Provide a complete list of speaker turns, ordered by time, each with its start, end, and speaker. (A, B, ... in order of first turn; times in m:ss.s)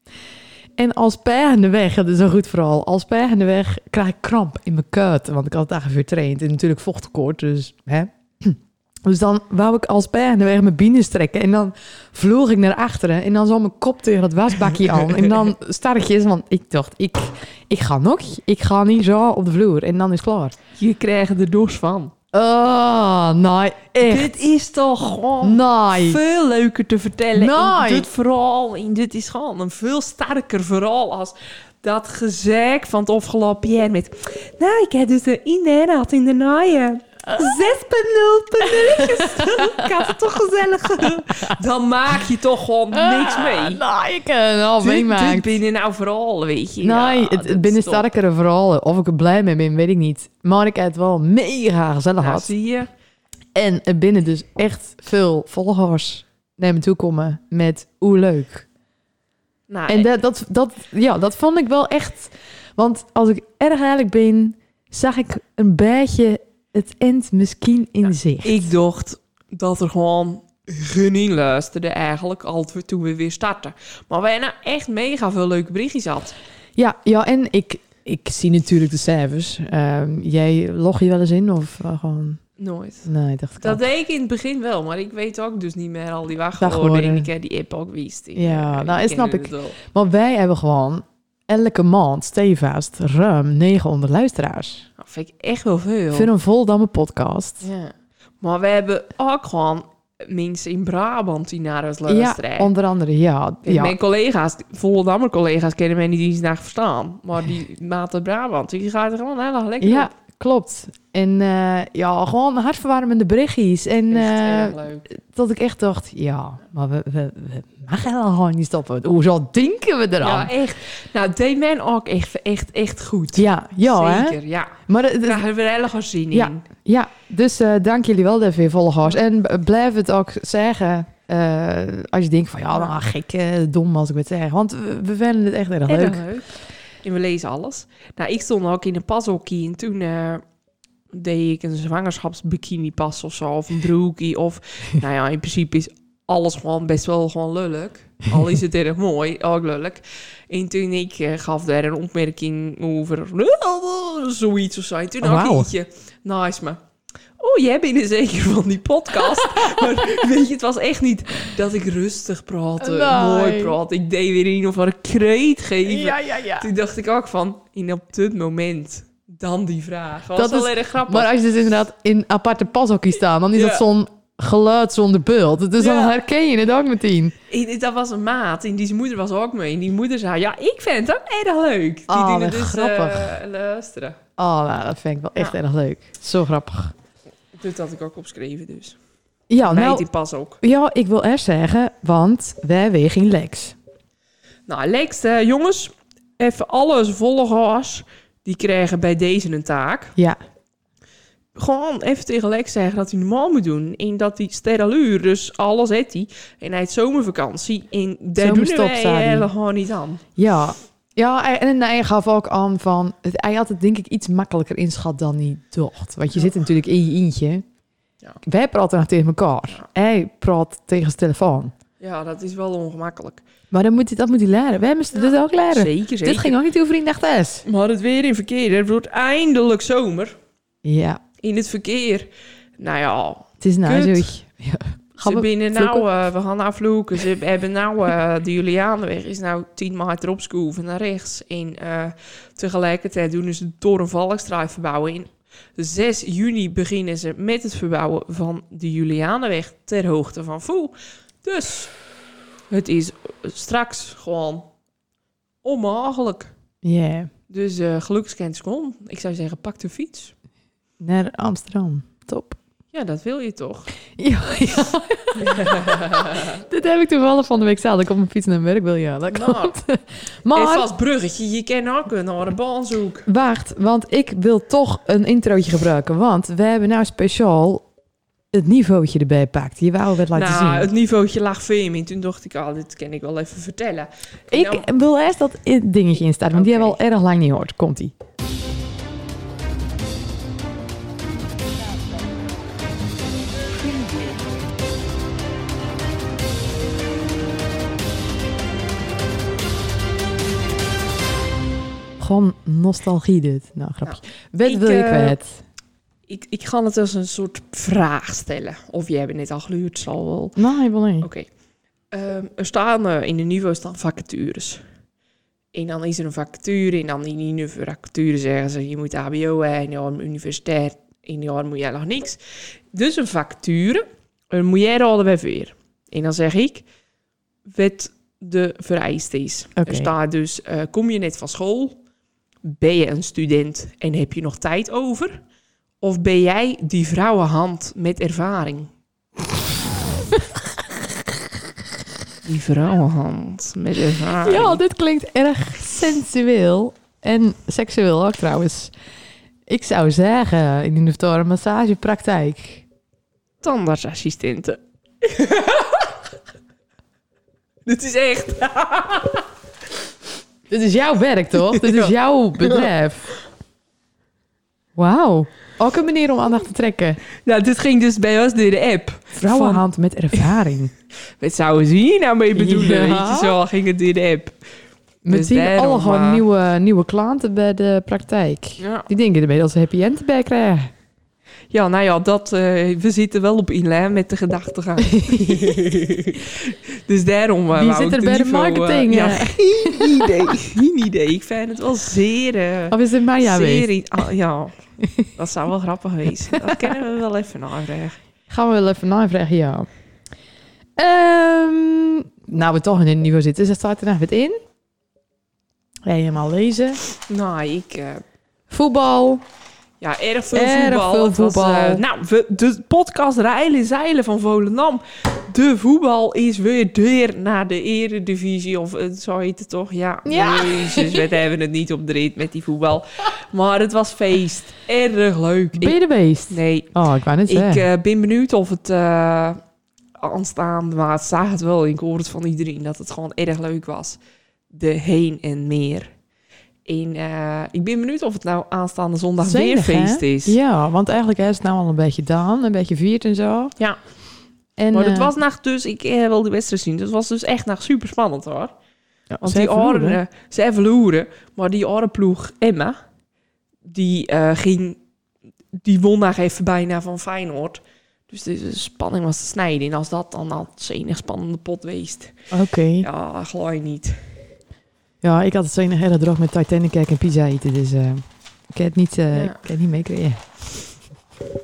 0:00.8-0:20.6 A
0:20.8-0:22.1 B
0:22.3-0:24.5 A
0:24.0-0:43.8 B
0:25.4-0:26.2 A
0:27.4-0:28.1 A
0:39.4-0:39.8 A
0:43.0-0:45.6 A
0:44.8-0:48.1 B
0:46.8-0:52.5 A
0:52.2-0:52.9 B
0:53.5-0:58.7 A
0:59.7-1:00.1 B
0:59.9-1:08.7 A
1:08.0-1:16.4 B
1:16.8-1:23.8 A
1:22.6-1:29.8 B
1:26.6-1:27.3 A
1:28.4-1:34.9 A
1:35.0-1:36.3 B
1:36.1-1:37.7 A
1:37.6-1:42.7 B
1:42.1-1:43.9 A
1:43.6-1:50.1 B
1:49.8-2:00.5 A
1:54.1-1:55.0 B
2:00.2-2:06.6 B
2:03.4-2:05.5 A
2:06.3-2:16.4 A
2:15.9-2:20.5 B
2:21.1-2:36.8 B
2:35.2-2:35.7 A
2:37.4-2:51.3 B
2:42.8-2:43.8 A
2:45.8-2:46.7 A
2:50.4-2:57.4 A
2:53.5-2:53.8 B
2:55.8-2:56.2 B
2:57.5-3:04.2 B
3:02.1-3:03.3 A
3:04.4-3:06.9 A
3:07.5-3:09.0 B
3:09.5-3:13.8 A
3:09.6-3:10.6 B
3:14.7-3:20.2 B
3:21.6-3:30.2 B
3:28.4-3:29.5 A
3:30.4-3:37.7 A
3:38.4-3:41.7 A
3:42.0-3:43.4 B
3:43.7-3:47.6 A
3:45.1-3:46.6 B
3:47.6-3:50.4 B
3:50.8-3:51.2 A
3:51.4-3:54.3 B
3:53.6-3:56.1 A
3:55.2-4:12.1 B
4:12.7-4:14.7 B
4:15.6-4:16.5 B
4:16.8-4:17.3 A
4:17.5-4:20.4 B
4:21.0-4:22.6 A
4:22.9-4:24.0 B
4:24.2-4:25.4 A
4:25.4-4:26.1 B
4:26.5-4:30.9 A
4:29.3-4:29.8 B
4:30.5-4:33.3 B
4:33.3-4:37.9 A
4:38.5-4:40.9 A
4:40.3-4:44.9 B
4:44.5-4:48.2 A
4:46.5-4:47.0 B
5:02.2-5:05.6 A
5:04.0-5:05.4 B
5:06.2-5:10.7 B
5:10.6-5:11.3 A
5:11.2-5:11.6 B
5:12.1-5:15.0 B
5:15.7-5:26.9 B
5:27.6-5:32.0 B
5:29.8-5:30.1 A
5:32.6-5:35.5 B
5:36.0-5:38.9 B
5:42.4-5:44.8 B
5:44.4-5:48.9 A
5:49.7-5:52.8 A
5:53.6-5:56.1 B
5:57.8-5:59.4 B
6:00.7-6:03.3 A
6:01.7-6:02.9 B
6:05.0-6:07.2 A
6:07.4-6:09.8 B
6:09.4-6:10.9 A
6:11.4-6:14.6 B
6:12.6-6:13.6 A
6:15.2-6:20.9 A
6:15.3-6:16.4 B
6:18.8-6:19.1 B
6:21.7-6:38.2 B
6:27.7-6:30.2 A
6:32.9-6:34.2 A
6:38.5-6:39.9 A
6:41.0-6:44.6 A
6:46.1-6:47.0 A
6:47.3-6:48.2 B
6:48.7-6:49.4 A
6:50.0-7:09.6 B
6:50.5-6:52.0 A
7:00.2-7:01.2 A
7:05.8-7:07.8 A
7:10.2-7:16.2 B
7:16.8-7:20.6 B
7:19.4-7:23.8 A
7:23.8-7:24.4 B
7:24.8-7:25.3 A
7:24.9-7:28.7 B
7:29.3-7:30.2 A
7:29.4-7:33.0 B
7:33.8-7:35.0 B
7:35.7-7:44.4 B
7:42.5-7:43.1 A
7:45.2-7:51.0 A
7:49.3-7:49.6 B